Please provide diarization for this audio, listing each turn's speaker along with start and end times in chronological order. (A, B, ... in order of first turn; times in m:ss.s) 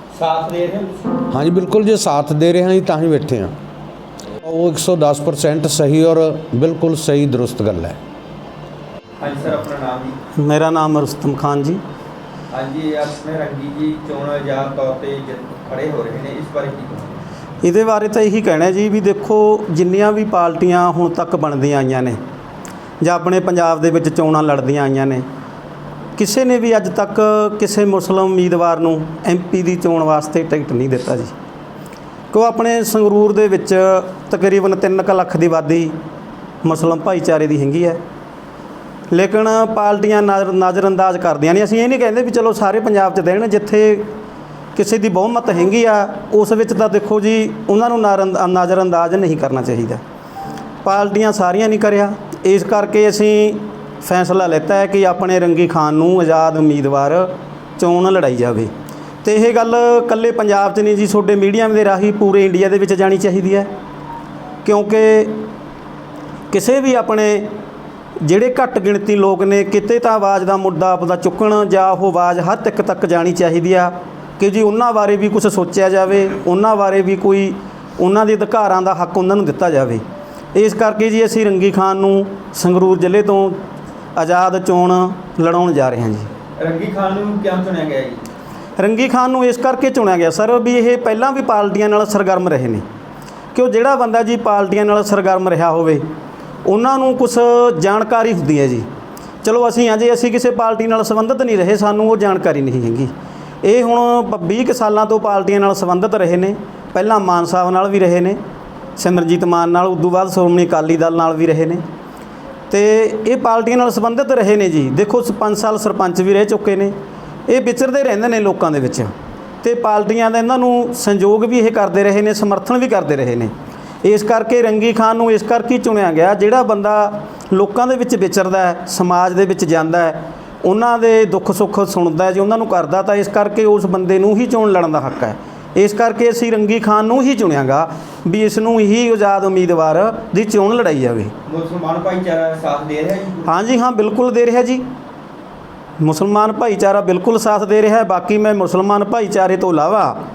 0:00.1-0:01.1 A
0:01.3-0:03.5 B
0:04.4-0:08.0 B
0:09.2-0:10.2 A
0:10.4-0:11.8 C
0:12.5-0:17.2 A
0:17.6-0:22.2 C
0:23.0-0:25.2 C
0:26.2-0:31.3 C
0:32.3-0:35.9 C
0:36.6-0:38.0 C
0:39.1-0:44.1 C
0:44.8-0:50.0 C
0:50.8-0:58.7 C
0:59.2-1:03.7 C
1:04.6-1:05.5 C
1:06.5-1:07.5 C
1:08.2-1:23.6 C
1:24.2-1:26.3 C
1:26.6-1:28.2 A
1:28.8-1:32.8 C
1:33.5-1:36.0 C
1:36.6-1:38.9 C
1:39.4-1:43.1 C
1:43.6-1:48.4 C
1:49.0-1:51.8 C
1:52.7-1:56.9 C
1:57.5-2:21.3 C
2:21.4-2:23.6 A
2:23.4-2:24.8 C
2:26.0-2:30.2 C